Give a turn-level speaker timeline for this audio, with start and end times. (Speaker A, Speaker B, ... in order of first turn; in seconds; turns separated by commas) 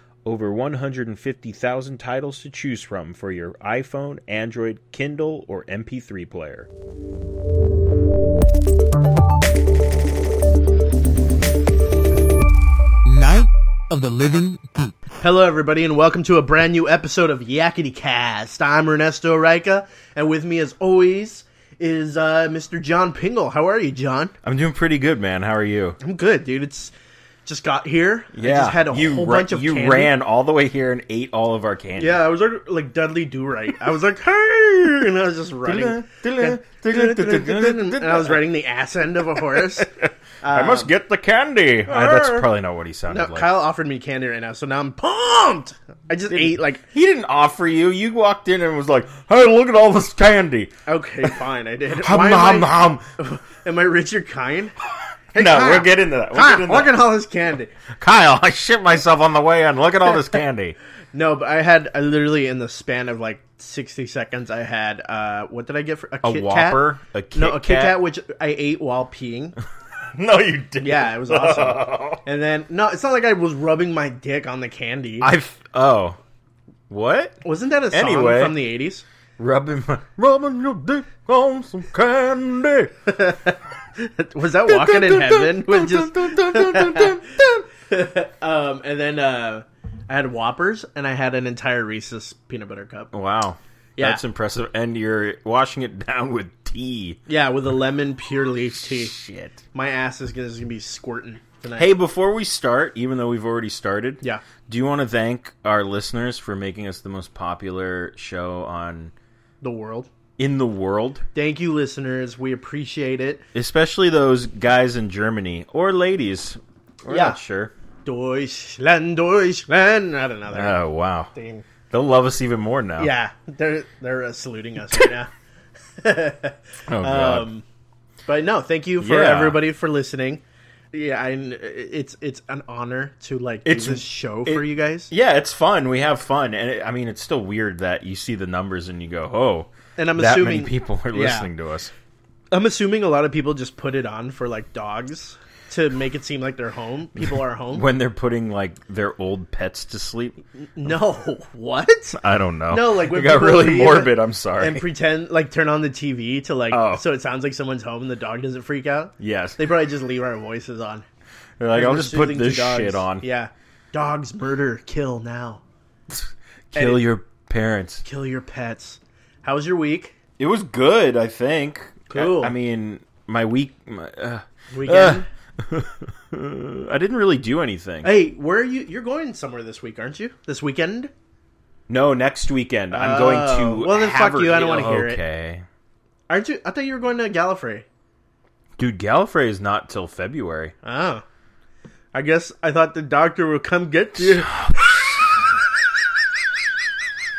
Speaker A: 0.2-6.7, Speaker B: 13.0-14.9, Speaker C: 15.2-24.3, Speaker A: 24.4-26.0, Speaker C: 26.0-26.9, Speaker C: 27.4-30.1, Speaker A: 28.3-32.2, Speaker C: 32.0-39.9, Speaker A: 35.6-38.4, Speaker A: 39.5-43.5, Speaker C: 40.4-40.9, Speaker C: 41.9-42.5, Speaker C: 43.1-46.8, Speaker A: 46.3-51.4, Speaker C: 50.9-54.8, Speaker A: 52.0-53.0, Speaker C: 55.3-57.7, Speaker A: 55.3-57.0, Speaker A: 58.0-60.8, Speaker C: 61.1-69.5, Speaker A: 66.2-68.0, Speaker A: 70.1-72.2, Speaker C: 70.8-75.3, Speaker A: 75.2-76.2, Speaker A: 76.9-78.5, Speaker C: 77.4-79.0, Speaker A: 79.4-82.9, Speaker C: 83.0-87.2, Speaker A: 84.7-87.7, Speaker C: 87.8-93.1, Speaker A: 93.1-97.2, Speaker C: 97.3-99.1, Speaker A: 98.8-99.6, Speaker C: 99.7-101.9, Speaker A: 101.8-109.1, Speaker C: 109.6-110.1, Speaker A: 110.4-111.2, Speaker C: 111.3-113.4, Speaker A: 113.5-117.7, Speaker C: 117.1-117.4, Speaker C: 118.0-120.8, Speaker A: 120.5-121.3, Speaker C: 121.3-121.7, Speaker A: 121.9-123.1, Speaker C: 123.0-125.3, Speaker C: 126.0-127.6, Speaker A: 126.9-127.5, Speaker C: 128.2-130.4, Speaker A: 129.0-129.6, Speaker C: 130.9-135.1, Speaker A: 133.6-141.9, Speaker C: 140.0-141.5, Speaker C: 142.5-147.8, Speaker A: 147.7-150.4, Speaker C: 150.7-161.0, Speaker A: 152.2-154.8, Speaker A: 156.7-157.0, Speaker A: 159.2-159.6, Speaker A: 161.6-163.2, Speaker C: 161.7-165.6, Speaker A: 166.1-168.1, Speaker C: 166.7-167.0, Speaker C: 168.0-170.1, Speaker A: 170.4-178.1, Speaker C: 172.1-172.5, Speaker C: 174.7-175.2, Speaker C: 178.0-181.1, Speaker A: 181.9-185.6, Speaker C: 182.9-185.2, Speaker C: 186.3-187.8, Speaker A: 188.8-190.7, Speaker C: 190.8-191.2, Speaker C: 192.1-195.0, Speaker A: 194.3-195.2